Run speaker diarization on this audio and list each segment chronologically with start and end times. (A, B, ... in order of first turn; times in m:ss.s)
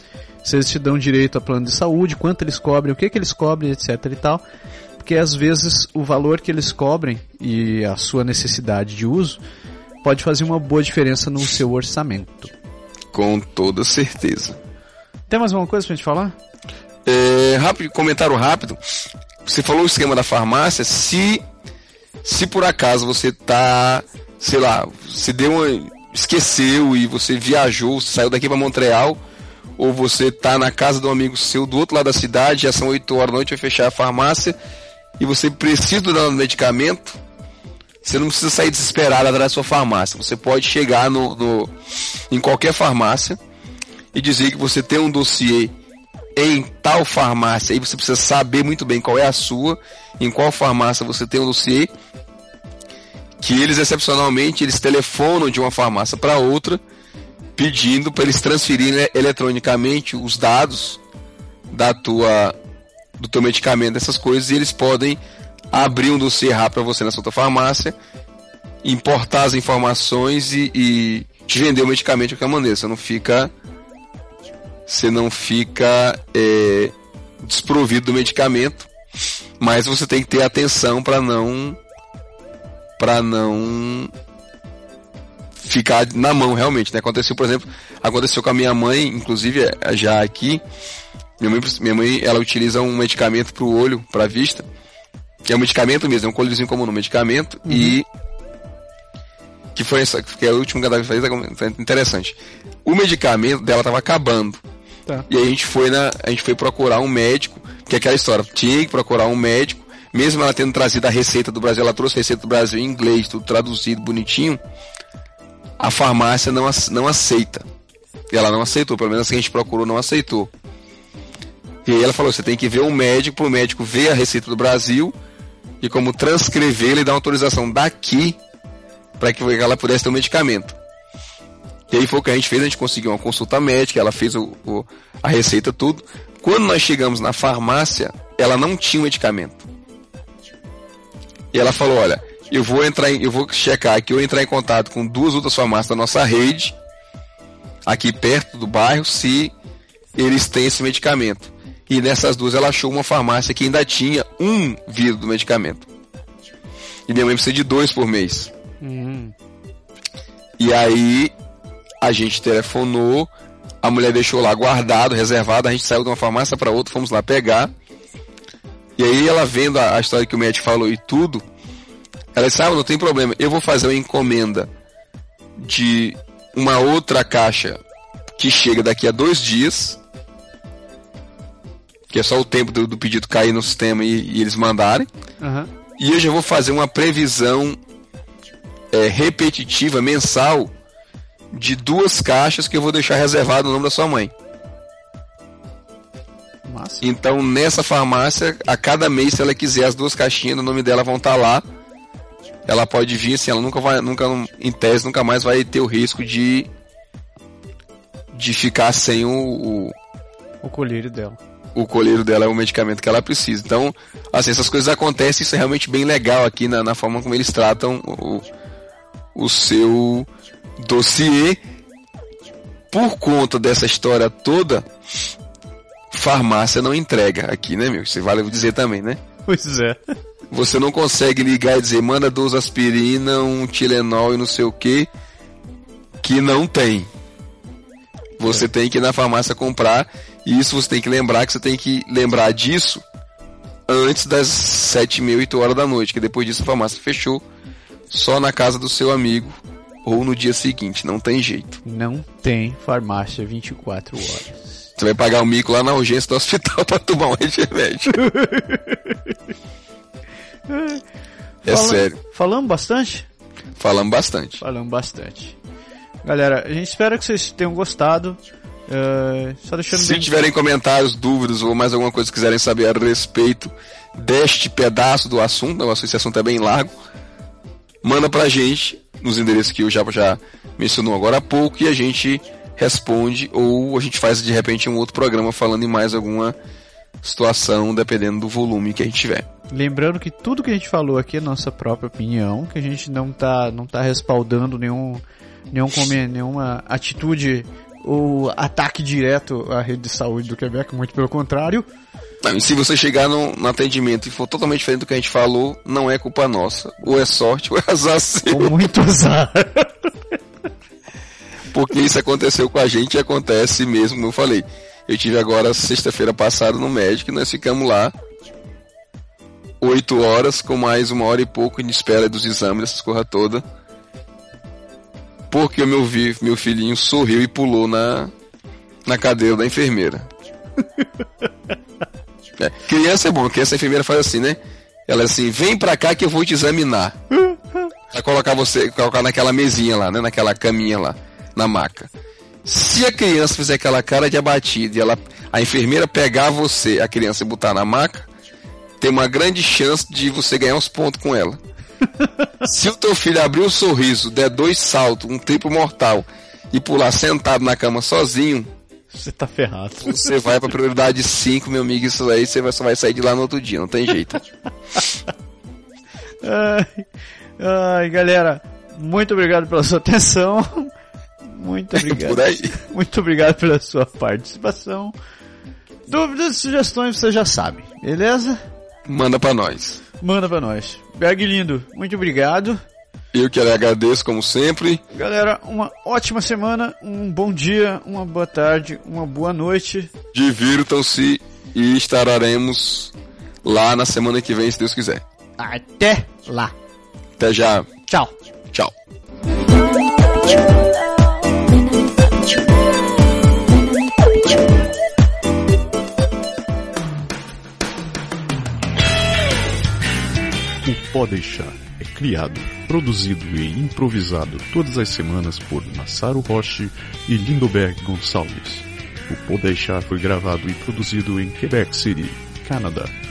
0:00.4-0:04.4 A
0:05.0-0:09.4 A
0:10.0-0:12.5 A
0:13.1-0:14.6 B
0:15.3-0:16.4 A
0:17.0-0:18.8 B
0:19.4-0:21.4 B
0:22.2-0:29.2 B
0:29.8-0:34.6 B
0:35.2-0:37.2 B
0:38.0-0:41.7 B
0:42.3-0:43.4 B
0:44.1-0:45.7 B
0:46.4-0:51.9 B
0:53.4-0:56.8 B
0:57.6-1:01.0 B
1:01.7-1:02.6 B
1:03.2-1:05.2 B
1:05.7-1:08.0 B
1:08.8-1:13.5 B
1:14.9-1:18.9 B
1:19.6-1:21.8 B
1:23.0-1:24.1 B
1:25.6-1:30.6 B
1:31.4-1:34.7 B
1:35.4-1:38.1 B
1:37.6-1:38.0 A
1:39.7-1:44.6 B
1:45.3-1:54.6 B
1:55.8-1:57.6 B
1:58.3-2:00.5 B
2:01.8-2:05.1 B
2:05.8-2:08.4 B
2:09.2-2:10.8 B
2:11.9-2:19.6 B
2:21.5-2:26.8 B
2:27.8-2:29.5 B
2:30.2-2:35.9 B
2:37.1-2:38.5 B
2:38.8-2:39.3 A
2:40.6-2:41.3 B
2:42.0-2:43.3 B
2:43.8-2:47.7 B
2:49.0-2:51.4 B
2:52.3-2:54.7 B
2:55.6-2:57.8 B
2:58.4-3:00.0 B
3:02.1-3:05.1 B
3:05.4-3:05.7 A
3:06.0-3:07.8 B
3:08.9-3:10.7 B
3:11.5-3:14.3 B
3:16.6-3:17.1 A
3:17.0-3:21.6 B
3:22.6-3:26.7 B
3:28.3-3:30.0 B
3:30.6-3:31.4 A
3:31.7-3:38.4 B
3:39.4-3:41.6 B
3:42.9-3:44.9 B
3:46.1-3:49.2 B
3:49.5-3:50.0 A
3:50.5-3:55.1 B
3:56.2-3:57.1 B
3:58.4-4:03.0 B
4:03.9-4:07.4 B
4:08.1-4:11.8 B
4:11.8-4:14.9 A
4:15.0-4:18.2 B
4:18.1-4:19.4 A
4:20.7-4:21.0 A
4:21.6-4:23.3 A
4:21.6-4:22.2 B
4:23.8-4:24.6 B
4:24.6-4:25.6 A
4:26.2-4:30.4 A
4:29.9-4:36.9 B
4:38.0-4:46.6 B
4:47.2-4:49.4 B
4:49.7-5:01.9 A
5:02.4-5:08.8 B
5:08.5-5:10.1 A
5:11.7-5:18.1 B
5:19.8-5:23.6 B
5:25.5-5:28.3 B
5:29.1-5:30.3 B
5:32.6-5:37.2 B
5:37.3-5:37.6 A
5:38.1-5:42.1 B
5:42.6-5:48.3 B
5:49.0-5:51.6 B
5:52.6-5:58.7 B
5:59.1-6:00.4 A
6:00.0-6:04.4 B
6:06.4-6:15.1 A
6:12.0-6:12.7 B
6:16.1-6:18.6 A
6:19.1-6:20.0 B
6:20.2-6:22.8 A
6:23.3-6:25.0 B
6:25.1-6:30.1 A
6:30.3-6:33.1 B
6:33.6-6:35.2 B
6:35.6-6:36.7 A
6:37.4-6:38.0 B
6:50.8-7:03.1 C